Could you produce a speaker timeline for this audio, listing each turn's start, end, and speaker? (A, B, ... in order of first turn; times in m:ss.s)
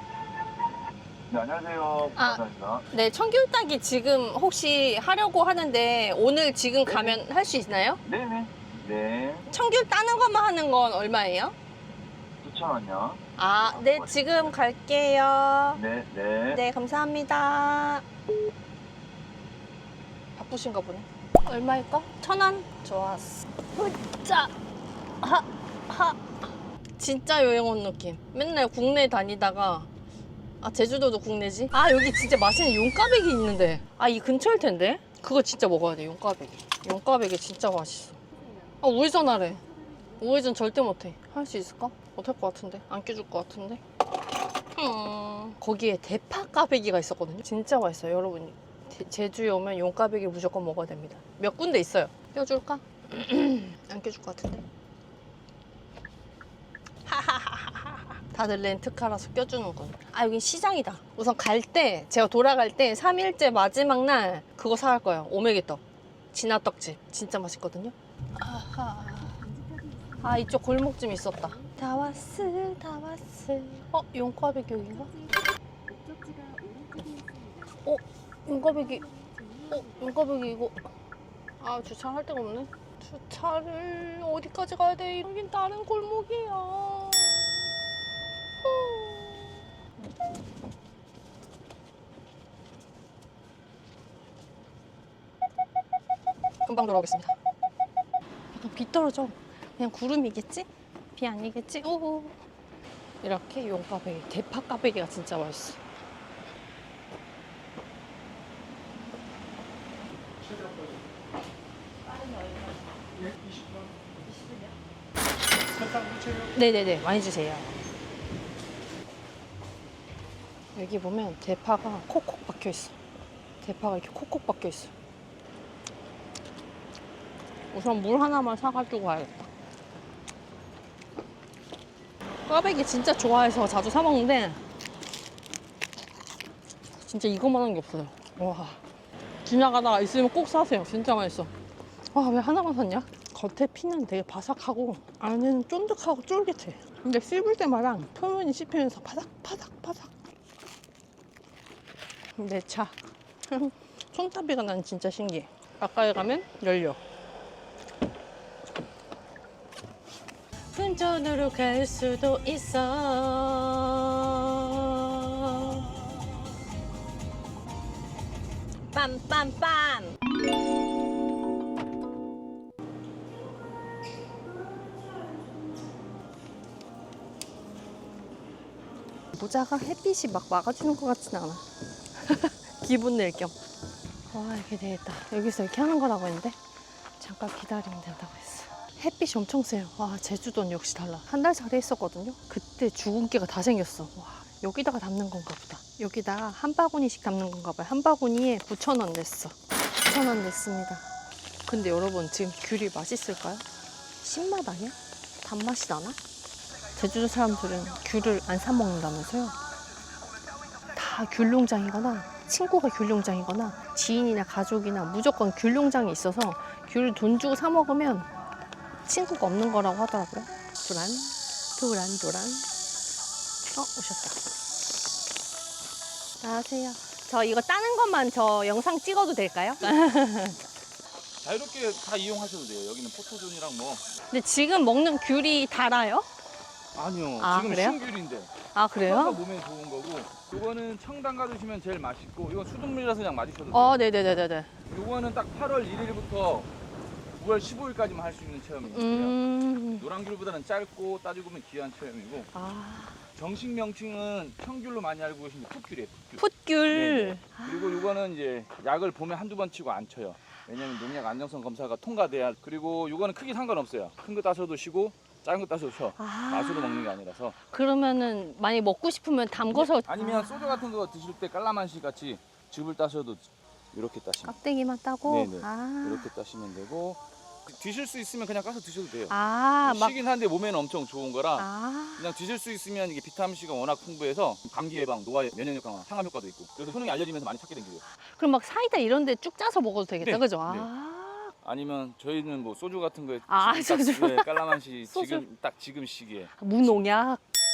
0:01.3-0:02.8 A
0:02.2-0:08.0 B
0:08.0-0:09.4 A
0:09.5-0:11.5 B
0:12.4-0:14.5 A
0:13.4-0:15.8 B
0:15.7-0:16.6 A
0:16.5-0:18.0 B
0:20.4-0:24.5 B
0:25.2-0:26.3 B
0:27.0-0:29.9 B
0:30.6-0:38.2 B
0:38.8-0:39.6 B
0:40.2-0:43.8 B
0:44.8-0:54.6 B
0:57.1-1:05.8 B
1:06.3-1:09.4 B
1:10.2-1:15.1 B
1:17.8-1:19.0 B
1:19.7-1:20.9 B
1:21.6-1:27.6 B
1:28.6-1:29.6 B
1:36.7-1:37.3 B
1:38.5-1:42.4 B
1:43.2-1:45.8 B
1:56.5-1:57.8 B
2:00.7-2:03.0 B
2:03.6-2:04.9 B
2:07.7-2:09.5 B
2:12.5-2:14.6 B
2:17.0-2:18.8 B
2:19.4-2:21.5 B
2:22.1-2:30.1 B
2:32.4-2:33.0 B
2:33.5-2:37.0 B
2:40.7-2:45.8 B
2:48.9-2:50.1 B
2:59.3-3:01.6 B
3:02.2-3:03.5 B
3:04.3-3:06.6 B
3:07.2-3:21.0 B
3:21.6-3:23.6 B
3:24.2-3:26.2 B
3:27.0-3:29.6 B
3:30.9-3:38.3 B
3:39.0-3:42.7 B
3:43.7-3:44.4 B
3:46.4-3:50.6 B
3:51.4-3:54.0 C
3:54.3-3:56.3 B
3:56.9-3:58.5 C
3:57.4-3:58.0 B
3:58.7-3:59.4 B
3:59.0-4:04.0 C
4:03.7-4:04.7 B
4:04.9-4:06.7 C
4:07.4-4:09.4 C
4:08.8-4:10.0 B
4:10.0-4:12.5 C
4:12.5-4:13.2 B
4:13.3-4:27.5 C
4:16.4-4:18.1 B
4:26.2-4:27.1 B
4:27.7-4:30.8 B
4:29.7-4:34.6 C
4:34.4-4:36.3 B
4:35.2-4:48.0 C
4:39.3-4:40.2 B
4:41.6-4:42.3 B
4:48.2-4:51.5 B
4:50.2-4:50.9 C
4:51.6-4:57.0 C
4:53.5-4:55.4 B
4:56.6-4:57.4 B